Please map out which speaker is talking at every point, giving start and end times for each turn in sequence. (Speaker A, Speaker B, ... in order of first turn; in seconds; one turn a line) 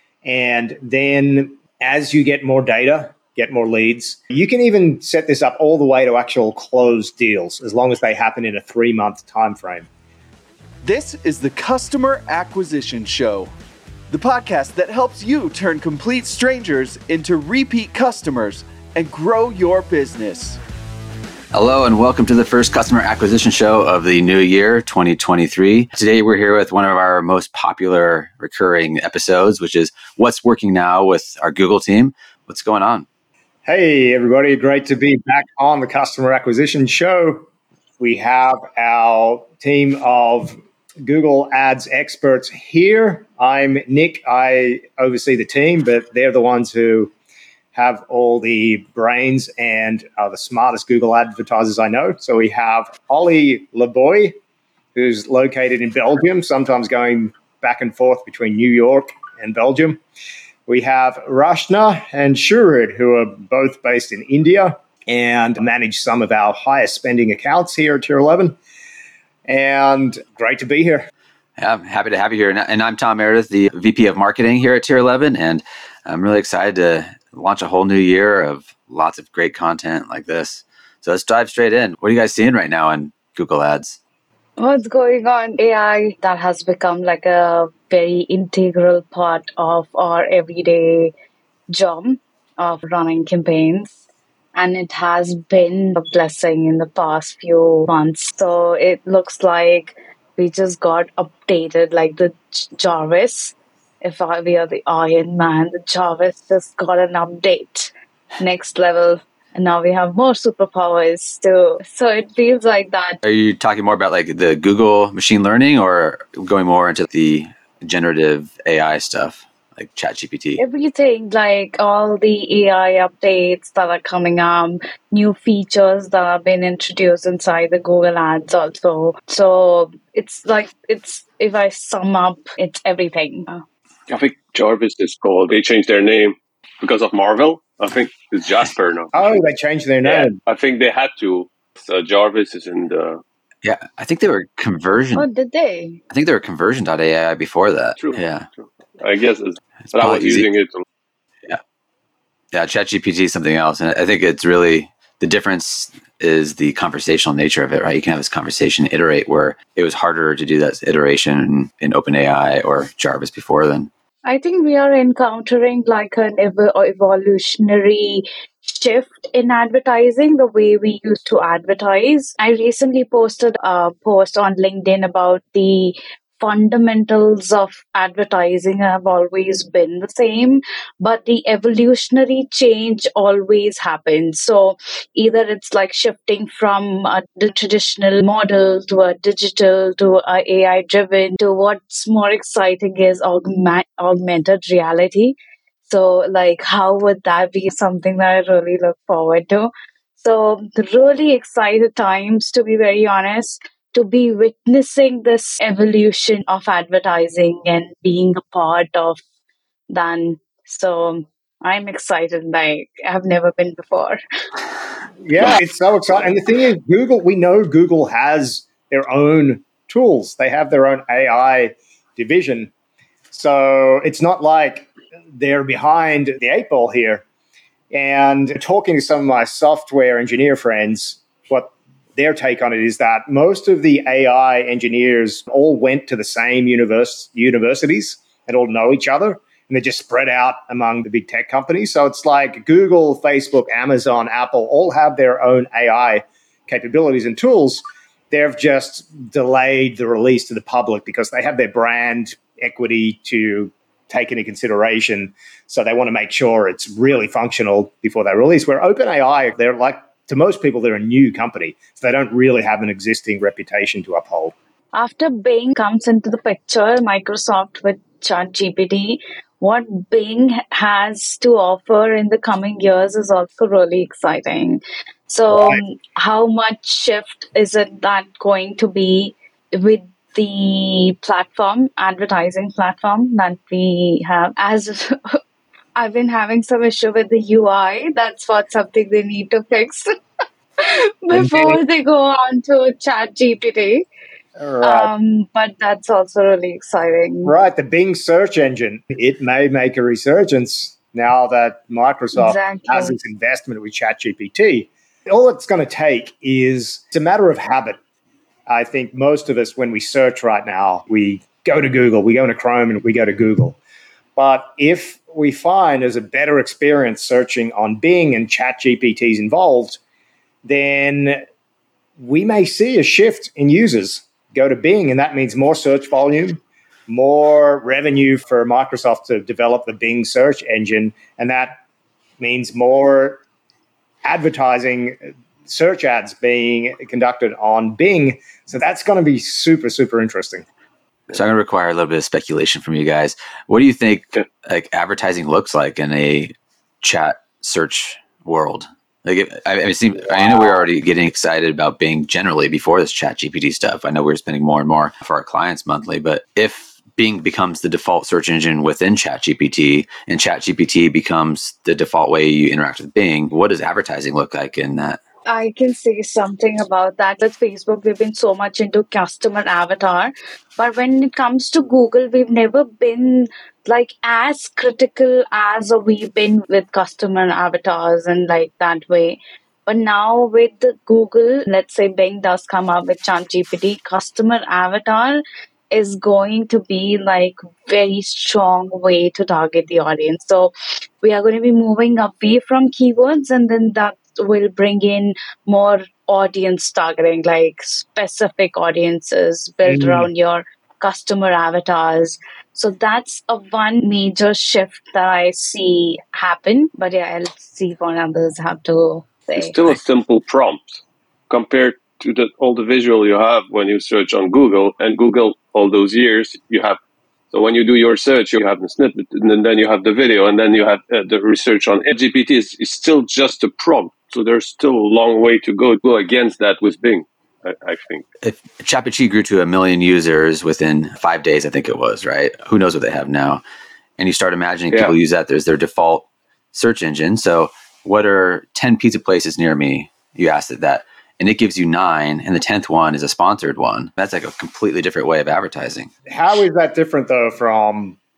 Speaker A: 0.2-9.9
Speaker B: 10.8-13.5
Speaker B: 14.1-20.6
Speaker C: 21.5-33.0
Speaker A: 33.6-37.4
Speaker A: 38.0-47.1
Speaker A: 47.7-54.4
Speaker A: 54.9-60.0
Speaker A: 60.7-68.5
Speaker A: 69.5-71.1
Speaker C: 71.6-84.0
Speaker D: 84.6-91.1
Speaker D: 91.7-94.0
Speaker D: 94.5-113.2
Speaker C: 113.2-120.6
Speaker D: 120.6-133.6
Speaker E: 134.1-139.4
Speaker A: 139.1-140.4
Speaker E: 140.0-143.2
Speaker C: 143.6-145.2
Speaker D: 145.1-146.0
Speaker C: 146.1-148.5
Speaker E: 148.0-150.8
Speaker C: 149.9-150.5
Speaker C: 152.5-163.9
Speaker D: 164.2-209.2
Speaker D: 209.9-214.2
Speaker A: 215.2-222.7
Speaker A: 223.3-227.2
Speaker A: 227.9-264.5
Speaker D: 264.9-285.4
Speaker A: 275.5-275.8
Speaker D: 285.9-290.1
Speaker D: 290.8-294.1
Speaker A: 291.3-291.8
Speaker A: 294.6-295.1
Speaker D: 294.8-297.5
Speaker A: 297.4-308.0
Speaker D: 302.3-303.1
Speaker A: 308.7-313.8
Speaker A: 314.4-320.0
Speaker A: 320.6-321.4
Speaker A: 322.2-331.8
Speaker A: 332.4-333.4
Speaker A: 334.2-340.6
Speaker C: 341.3-365.2
Speaker D: 365.4-409.8
Speaker A: 399.9-400.3
Speaker E: 409.6-417.0
Speaker E: 417.5-428.2
Speaker C: 428.4-433.6
Speaker C: 434.2-446.1
Speaker A: 446.3-448.2